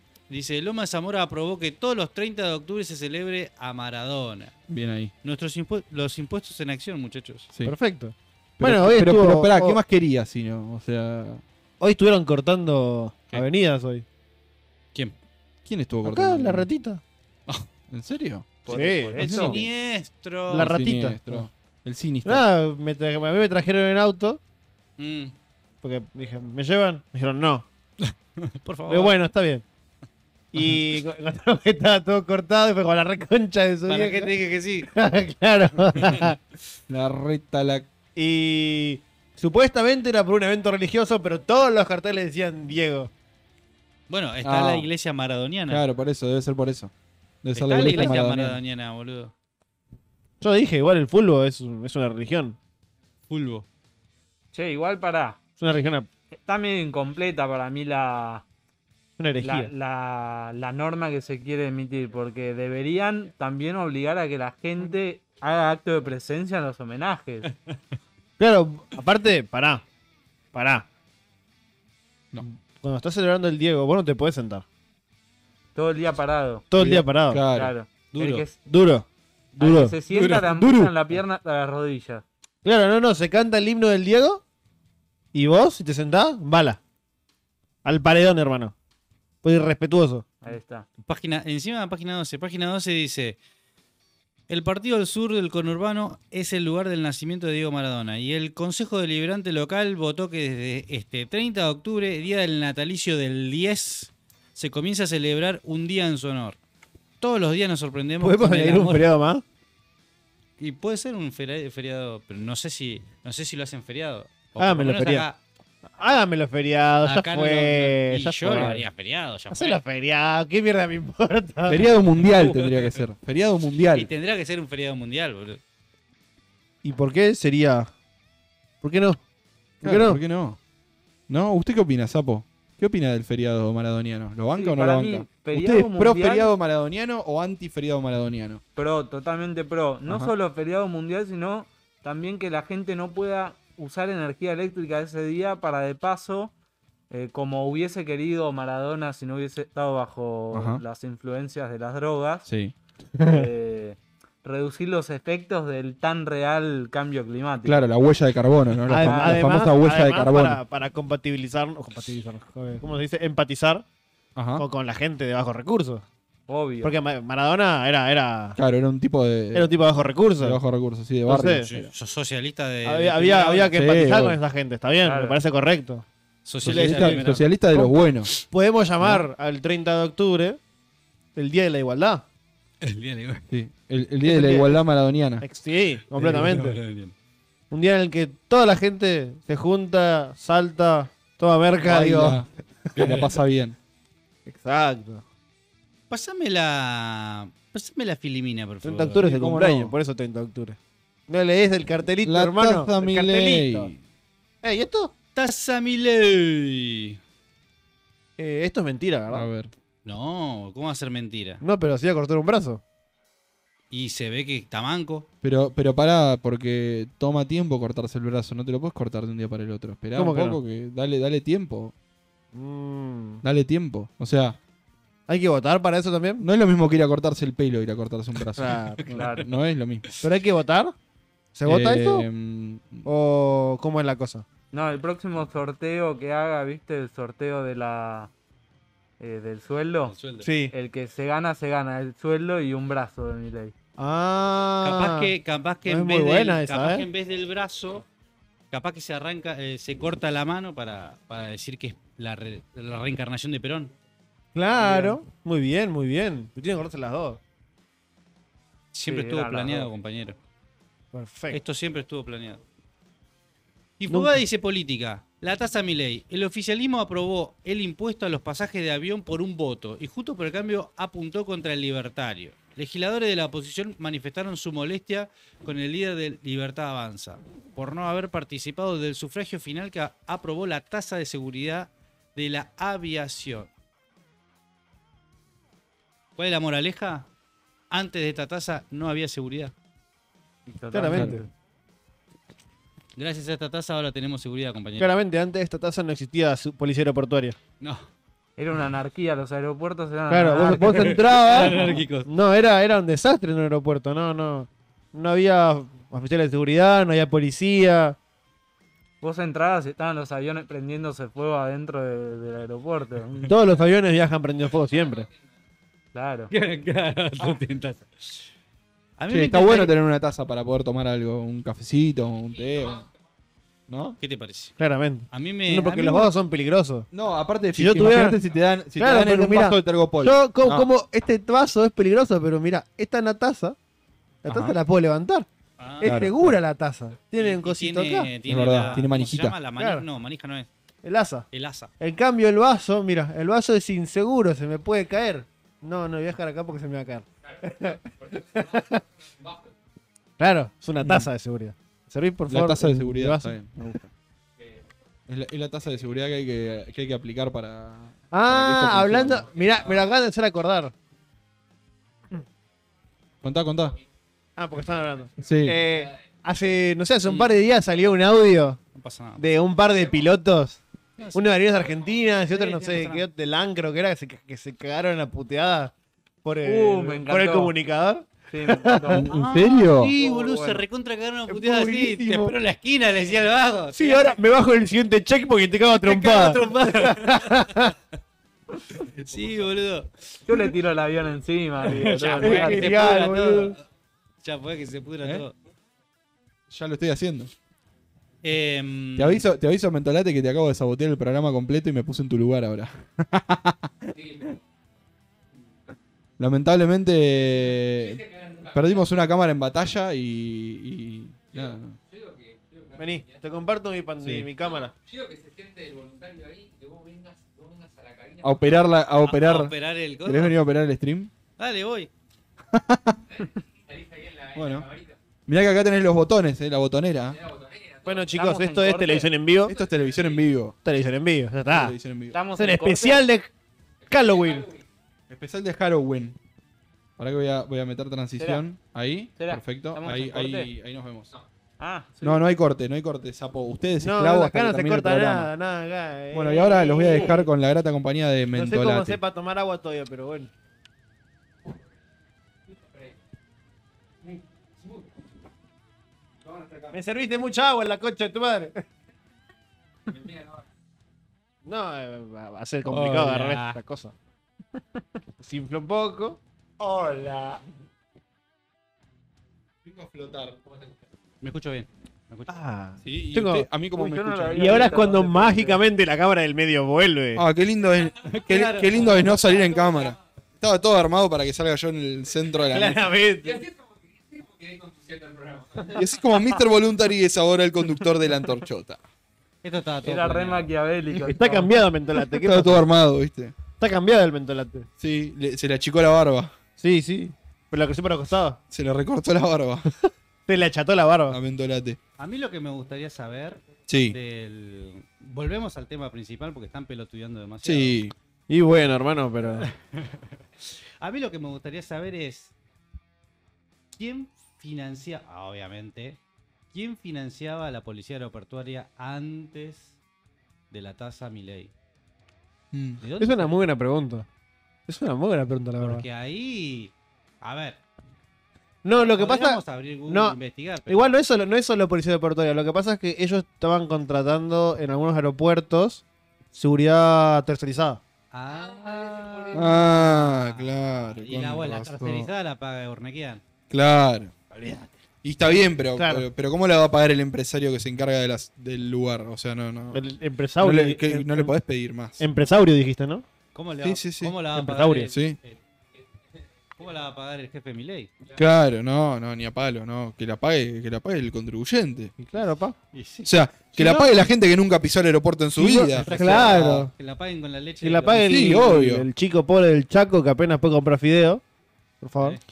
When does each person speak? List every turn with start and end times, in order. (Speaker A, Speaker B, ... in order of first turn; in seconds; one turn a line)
Speaker A: 0.3-4.5
Speaker B: 4.7-5.1
Speaker A: 5.2-7.5
Speaker C: 7.7-9.8
Speaker B: 8.6-11.4
Speaker C: 11.8-14.1
Speaker B: 15.7-16.7
Speaker C: 16.1-17.0
Speaker B: 17.5-18.7
Speaker D: 18.6-19.6
Speaker A: 18.7-20.7
Speaker C: 18.7-19.6
Speaker B: 19.2-19.6
Speaker C: 20.5-21.5
Speaker B: 20.5-22.4
Speaker C: 22.2-24.4
Speaker A: 25.0-25.4
Speaker C: 25.8-27.7
Speaker A: 28.5-29.1
Speaker C: 28.9-29.6
Speaker C: 30.5-36.4
Speaker A: 33.9-34.9
Speaker B: 36.9-37.9
Speaker C: 38.1-43.1
Speaker A: 44.1-45.8
Speaker B: 44.4-44.9
Speaker B: 45.7-46.9
Speaker B: 47.4-48.6
Speaker A: 47.5-49.3
Speaker C: 47.7-48.2
Speaker C: 50.4-52.6
Speaker A: 53.3-53.7
Speaker D: 54.5-55.4
Speaker C: 55.6-56.1
Speaker D: 56.3-58.5
Speaker C: 59.2-59.7
Speaker D: 59.4-67.5
Speaker C: 68.4-69.8
Speaker C: 70.5-70.9
Speaker C: 72.4-74.7
Speaker D: 75.8-76.6
Speaker C: 76.7-77.4
Speaker B: 76.7-77.7
Speaker D: 77.5-78.6
Speaker A: 78.1-78.4
Speaker C: 78.6-80.5
Speaker D: 79.6-82.2
Speaker B: 80.1-80.9
Speaker C: 82.6-84.4
Speaker C: 85.3-86.8
Speaker C: 87.8-88.7
Speaker C: 89.4-90.3
Speaker D: 90.4-90.9
Speaker A: 91.0-93.4
Speaker A: 94.5-106.6
Speaker A: 107.2-109.1
Speaker C: 108.2-109.4
Speaker A: 110.6-115.4
Speaker C: 114.6-115.3
Speaker C: 115.9-118.8
Speaker A: 117.0-119.8
Speaker B: 118.5-118.7
Speaker C: 119.5-121.8
Speaker B: 121.7-124.1
Speaker A: 122.2-123.0
Speaker A: 123.9-125.6
Speaker C: 126.8-127.9
Speaker C: 128.8-129.2
Speaker C: 129.8-130.2
Speaker B: 129.8-130.6
Speaker B: 131.3-138.6
Speaker D: 134.6-136.5
Speaker D: 138.8-146.5
Speaker B: 140.1-140.3
Speaker D: 147.1-152.5
Speaker B: 150.5-150.8
Speaker B: 152.5-152.7
Speaker C: 153.2-153.5
Speaker D: 153.2-157.8
Speaker B: 157.7-160.6
Speaker C: 158.9-163.8
Speaker D: 159.0-159.5
Speaker B: 164.4-164.7
Speaker C: 164.6-166.1
Speaker D: 166.5-166.9
Speaker C: 166.8-168.6
Speaker B: 168.6-169.7
Speaker C: 169.5-170.6
Speaker B: 170.4-171.9
Speaker C: 171.3-171.7
Speaker A: 171.4-173.8
Speaker C: 172.8-176.1
Speaker B: 173.7-174.4
Speaker D: 175.0-175.4
Speaker A: 176.4-177.5
Speaker B: 176.6-178.3
Speaker C: 176.6-180.6
Speaker B: 179.0-179.3
Speaker C: 181.3-182.2
Speaker A: 182.8-183.4
Speaker B: 183.5-185.4
Speaker C: 184.2-184.8
Speaker C: 185.4-186.8
Speaker A: 186.2-187.1
Speaker C: 187.7-192.4
Speaker B: 191.8-193.8
Speaker A: 193.0-193.3
Speaker C: 194.5-195.2
Speaker A: 196.1-199.2
Speaker C: 198.8-203.9
Speaker B: 199.2-199.9
Speaker B: 202.2-204.0
Speaker C: 204.6-205.1
Speaker A: 205.3-207.2
Speaker C: 208.4-209.5
Speaker B: 209.3-209.7
Speaker A: 210.0-211.6
Speaker C: 211.6-212.8
Speaker A: 213.9-215.3
Speaker B: 215.4-221.9
Speaker C: 220.2-220.6
Speaker C: 222.5-223.4
Speaker B: 223.4-224.6
Speaker C: 225.3-226.5
Speaker B: 226.4-230.0
Speaker C: 228.6-229.2
Speaker D: 229.1-229.5
Speaker C: 230.2-230.9
Speaker C: 231.6-232.3
Speaker B: 231.7-233.1
Speaker C: 233.1-234.5
Speaker D: 234.7-238.3
Speaker D: 239.2-240.2
Speaker A: 240.1-240.5
Speaker C: 240.4-240.7
Speaker D: 240.7-243.7
Speaker C: 244.0-245.3
Speaker A: 244.8-248.1
Speaker C: 245.9-247.1
Speaker A: 248.7-253.9
Speaker C: 254.6-257.4
Speaker A: 254.8-255.2
Speaker A: 258.9-260.4
Speaker D: 259.1-259.9
Speaker C: 261.1-261.6
Speaker A: 261.5-262.6
Speaker A: 264.0-283.7
Speaker C: 264.1-264.4
Speaker A: 286.4-287.3
Speaker A: 287.9-289.7
Speaker D: 290.7-291.5
Speaker C: 290.9-291.5
Speaker A: 293.2-295.1
Speaker C: 295.0-297.6
Speaker A: 297.8-298.1
Speaker D: 298.6-301.2
Speaker C: 300.3-308.2
Speaker A: 300.8-302.3
Speaker D: 309.2-313.5
Speaker C: 313.5-315.3
Speaker D: 316.1-316.5
Speaker A: 316.5-318.5
Speaker A: 319.2-319.9
Speaker B: 319.3-323.1
Speaker B: 323.9-324.2
Speaker A: 324.2-324.8
Speaker C: 324.8-327.1
Speaker A: 325.3-326.4
Speaker B: 327.1-330.9
Speaker C: 327.8-328.4
Speaker C: 329.0-333.8
Speaker C: 334.4-335.5
Speaker A: 334.5-334.7
Speaker A: 335.8-336.2
Speaker C: 336.0-338.3
Speaker B: 336.0-336.6
Speaker A: 337.4-340.7
Speaker B: 338.5-339.6
Speaker C: 339.8-340.1
Speaker C: 341.0-341.5
Speaker A: 341.5-341.9
Speaker C: 342.0-349.0
Speaker C: 350.4-354.0
Speaker B: 351.0-351.3
Speaker B: 352.5-354.1
Speaker B: 355.3-359.5
Speaker C: 358.3-360.9
Speaker B: 363.4-364.0
Speaker C: 364.6-368.8
Speaker B: 365.4-365.8
Speaker A: 367.2-367.5
Speaker A: 368.9-369.4
Speaker C: 369.4-370.8
Speaker C: 371.3-379.2
Speaker A: 372.5-373.2
Speaker D: 376.6-377.7
Speaker D: 378.5-379.4
Speaker B: 379.1-380.1
Speaker A: 379.3-384.4
Speaker D: 380.2-380.8
Speaker C: 381.5-382.5
Speaker C: 383.9-388.0
Speaker A: 385.9-387.7
Speaker A: 389.0-390.1
Speaker B: 389.2-389.6
Speaker D: 390.5-392.9
Speaker A: 391.8-393.8
Speaker C: 391.9-393.8
Speaker A: 394.4-395.6
Speaker B: 396.7-397.5
Speaker A: 398.4-399.4
Speaker B: 399.2-404.6
Speaker B: 406.4-412.0
Speaker C: 413.0-414.9
Speaker B: 418.4-419.7
Speaker A: 419.2-420.6
Speaker B: 420.2-421.3
Speaker A: 421.6-422.1
Speaker B: 422.7-423.4
Speaker B: 424.5-424.9
Speaker B: 425.5-427.4
Speaker C: 428.0-429.8
Speaker D: 428.3-429.3
Speaker B: 429.7-430.8
Speaker C: 430.8-431.9
Speaker B: 431.7-432.4
Speaker D: 432.3-433.2
Speaker C: 432.6-433.5
Speaker C: 434.1-434.7
Speaker B: 435.3-436.4
Speaker B: 437.2-441.3
Speaker D: 438.4-438.6
Speaker D: 439.4-440.7
Speaker D: 441.8-442.4
Speaker B: 442.2-445.5
Speaker C: 444.0-447.5
Speaker B: 446.3-449.2
Speaker C: 448.5-450.5
Speaker C: 456.9-458.8
Speaker C: 461.6-464.1
Speaker A: 462.9-463.8
Speaker C: 465.4-466.4
Speaker D: 466.8-467.6
Speaker B: 469.9-470.6
Speaker A: 471.4-472.6
Speaker C: 472.5-473.7
Speaker B: 473.0-475.0
Speaker D: 473.9-475.8
Speaker C: 474.6-477.4
Speaker B: 477.4-483.0
Speaker A: 478.2-479.3
Speaker C: 482.7-483.7
Speaker B: 485.8-489.0
Speaker A: 489.6-490.7
Speaker D: 490.0-491.8
Speaker C: 491.2-492.8
Speaker B: 492.3-493.6
Speaker C: 493.8-494.9
Speaker B: 495.0-496.5
Speaker C: 496.8-498.6
Speaker B: 498.7-499.9
Speaker C: 500.5-501.4
Speaker B: 501.3-502.0
Speaker A: 502.2-508.0
Speaker B: 503.9-504.2
Speaker B: 507.6-508.1
Speaker C: 508.5-509.7
Speaker A: 509.6-510.4
Speaker A: 511.0-512.5
Speaker A: 514.0-516.2
Speaker A: 516.7-520.0
Speaker A: 520.7-521.7
Speaker B: 522.7-523.0
Speaker A: 523.0-523.6
Speaker C: 523.2-524.3
Speaker C: 524.9-526.0
Speaker A: 525.8-527.8
Speaker C: 528.8-536.0
Speaker A: 529.0-531.2
Speaker C: 536.5-538.0
Speaker A: 538.3-543.4
Speaker B: 539.5-542.3
Speaker B: 543.7-544.4
Speaker A: 544.5-544.9
Speaker B: 545.2-550.0
Speaker C: 546.0-546.3
Speaker C: 549.9-551.5
Speaker B: 550.6-552.2
Speaker C: 552.2-553.2
Speaker A: 553.5-555.6
Speaker B: 553.8-554.4
Speaker C: 554.5-555.1
Speaker B: 555.1-555.4
Speaker A: 556.8-558.1
Speaker B: 558.3-562.1
Speaker C: 562.2-562.8
Speaker A: 562.9-563.3
Speaker B: 563.2-566.9
Speaker C: 563.8-564.1
Speaker C: 565.6-566.9
Speaker A: 566.0-568.6
Speaker C: 567.8-571.4
Speaker B: 568.2-569.1
Speaker C: 572.0-572.4